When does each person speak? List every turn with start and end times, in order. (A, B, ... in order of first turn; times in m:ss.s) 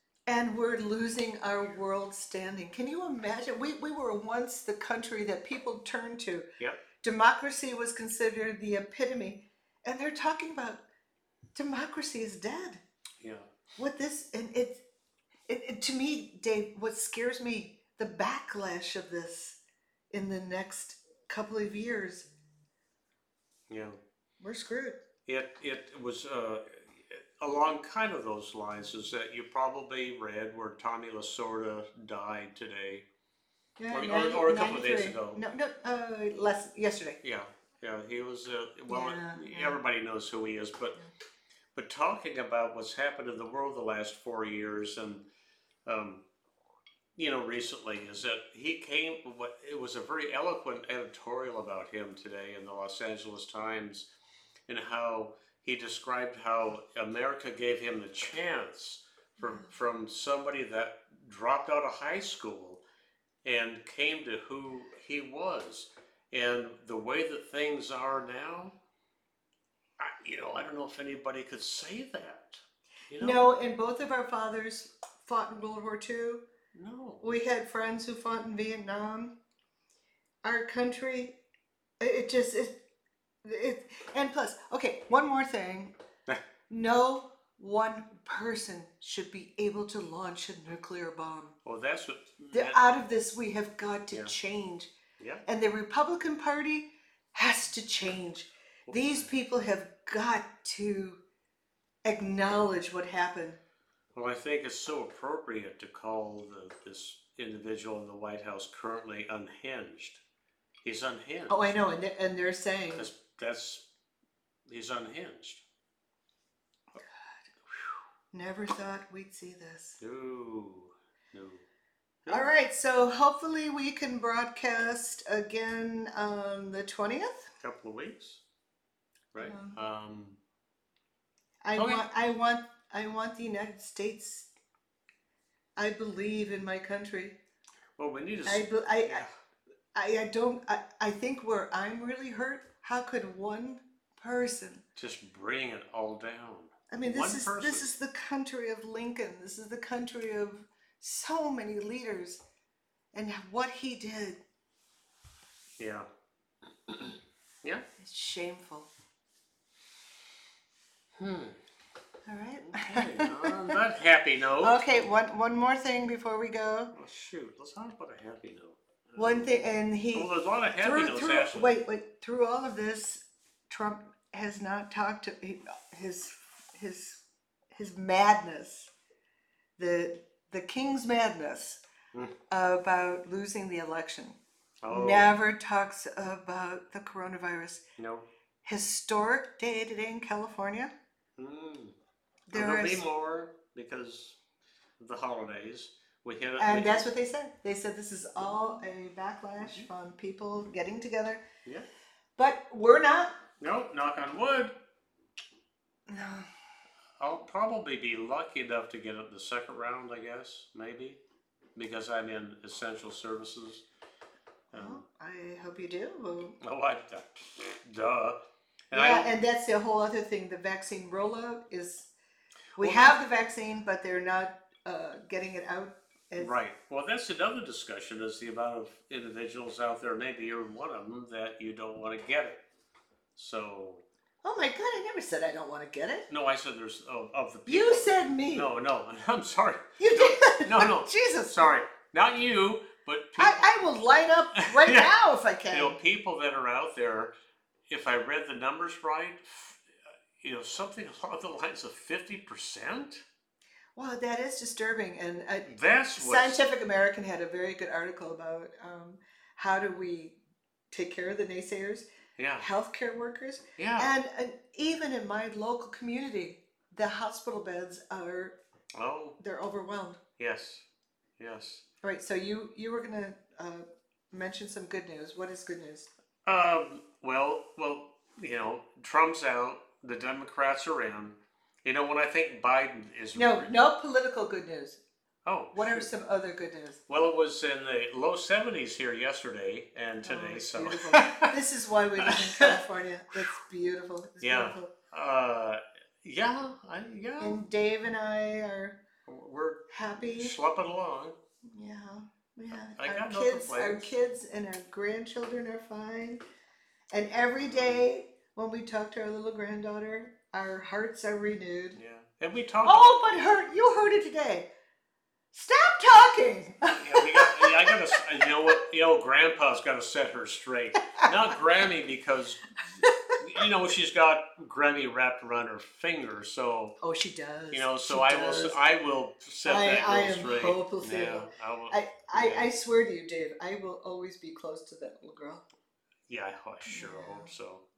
0:00.3-0:06.5 A
0:07.0-0:10.8 A
0:11.5-0:12.8 A
0:13.2-0:13.5 B
0:13.8-0:14.8 A
0:15.5-0:19.6 A
0:20.1-0:22.3 A
0:23.7-0:24.0 B
0:24.4-0:25.0 A
0:25.2-0:33.0 B
0:33.8-0:37.2 A
0:33.9-0:35.4 B
0:37.2-0:41.0 B
0:38.9-0:39.8 A
0:41.7-0:45.2 B
0:45.8-0:46.2 B
0:47.2-0:54.1 B
0:54.7-1:02.8 B
1:03.4-1:08.8 B
1:10.0-1:13.4 B
1:13.2-1:16.4 A
1:16.7-1:17.4 B
1:17.2-1:19.4 A
1:20.4-1:21.4 A
1:22.0-1:22.8 A
1:23.4-1:25.9 A
1:26.7-1:31.6 A
1:31.6-1:32.8 B
1:32.5-1:34.9 A
1:35.2-1:35.4 B
1:35.4-1:41.2 A
1:38.9-1:39.3 B
1:42.0-1:43.6 A
1:44.1-1:50.2 B
1:50.8-1:51.8 B
1:51.5-1:53.1 A
1:53.0-1:53.8 B
1:54.7-1:55.6 B
1:58.3-2:00.0 A
2:00.0-2:01.6 B
2:02.2-2:02.5 B
2:02.3-2:07.5 A
2:07.6-2:08.4 B
2:09.3-2:10.4 B
2:09.4-2:09.8 A
2:11.6-2:14.5 A
2:11.8-2:12.0 B
2:15.8-2:17.4 A
2:18.0-2:19.3 B
2:18.4-2:19.2 A
2:19.9-2:24.8 A
2:25.0-2:27.9 B
2:26.9-2:32.4 A
2:33.1-2:34.4 A
2:35.8-2:36.1 B
2:36.9-2:37.8 B
2:38.0-2:38.9 A
2:41.2-2:41.6 B
2:42.3-2:43.7 A
2:42.6-2:45.1 B
2:44.6-2:46.9 A
2:46.9-2:49.6 B
2:49.2-2:57.2 A
2:50.1-2:51.8 B
2:57.7-2:58.9 A
2:59.8-3:01.8 A
3:02.5-3:04.4 A
3:04.8-3:05.4 B
3:04.9-3:07.8 A
3:08.0-3:08.3 B
3:08.6-3:10.9 A
3:11.4-3:11.9 B
3:12.5-3:13.0 A
3:12.5-3:14.4 B
3:15.0-3:17.1 B
3:16.6-3:21.4 A
3:19.6-3:19.8 B
3:22.4-3:23.4 A
3:23.6-3:24.7 B
3:26.1-3:26.5 A
3:27.2-3:31.2 B
3:31.8-3:33.8 B
3:34.7-3:35.0 B
3:34.7-3:36.6 A
3:36.6-3:38.4 B
3:38.9-3:39.3 B
3:38.9-3:42.1 A
3:42.8-3:46.5 A
3:42.8-3:43.2 B
3:46.4-3:52.6 B
3:53.4-3:54.0 B
3:54.4-3:56.3 A
3:56.3-4:03.8 B
3:57.6-3:58.7 A
4:00.0-4:01.7 A
4:03.4-4:06.0 A
4:04.6-4:05.1 B
4:05.7-4:07.3 B
4:07.9-4:09.8 B
4:10.4-4:13.2 B
4:14.0-4:20.4 A
4:15.6-4:16.6 B
4:20.9-4:22.0 A
4:22.4-4:22.7 B
4:22.6-4:28.6 A
4:23.8-4:24.1 B
4:29.0-4:29.4 B
4:29.4-4:30.2 A
4:30.4-4:30.8 B
4:31.4-4:31.8 B
4:32.0-4:36.1 A
4:36.4-4:43.7 B
4:43.3-4:45.0 A
4:45.4-4:46.1 B
4:45.7-4:47.0 A
4:47.1-4:51.5 B
4:50.2-4:54.9 A
4:52.2-4:52.8 B
4:54.4-4:57.6 B
4:57.4-4:59.0 A
4:59.2-5:01.4 B
4:59.9-5:00.5 A
5:01.7-5:06.4 A
5:02.9-5:04.1 B
5:07.1-5:12.0 A
5:07.6-5:08.1 B
5:11.9-5:13.2 B
5:12.8-5:14.7 A
5:15.5-5:18.4 A
5:16.9-5:22.8 B
5:23.0-5:23.3 A
5:23.4-5:27.0 B
5:27.0-5:28.8 A
5:27.7-5:32.7 B
5:29.6-5:35.6 A
5:36.3-5:37.8 B
5:36.8-5:37.5 A